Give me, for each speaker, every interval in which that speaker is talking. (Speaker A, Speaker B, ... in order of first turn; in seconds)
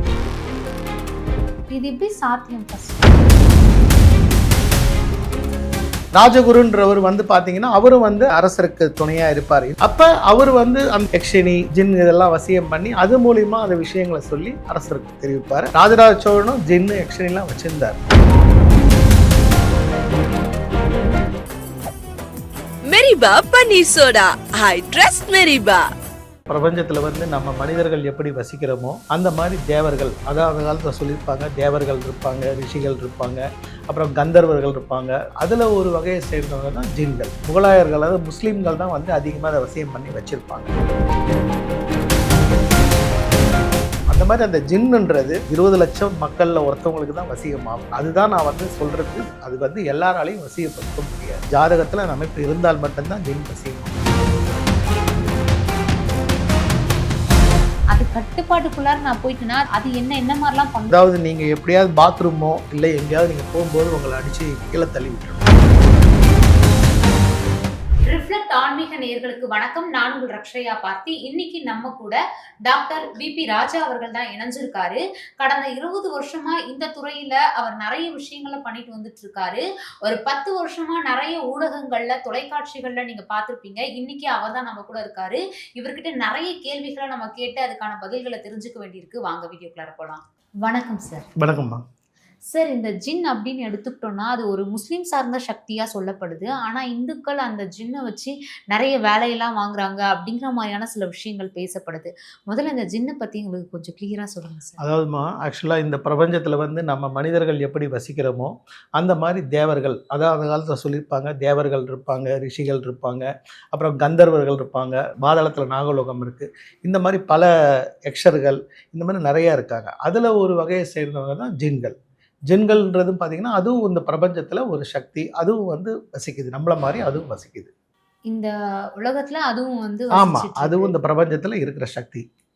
Speaker A: 1.7-3.1, 57.9-60.9, 68.1-91.3, 92.5-104.8, 128.3-130.9
Speaker B: 6.2-18.0, 26.5-40.7, 44.1-53.9, 60.9-65.5, 91.4-91.8, 104.8-117.5, 118.0-121.9, 122.5-127.7, 130.2-132.2
Speaker C: 22.9-25.9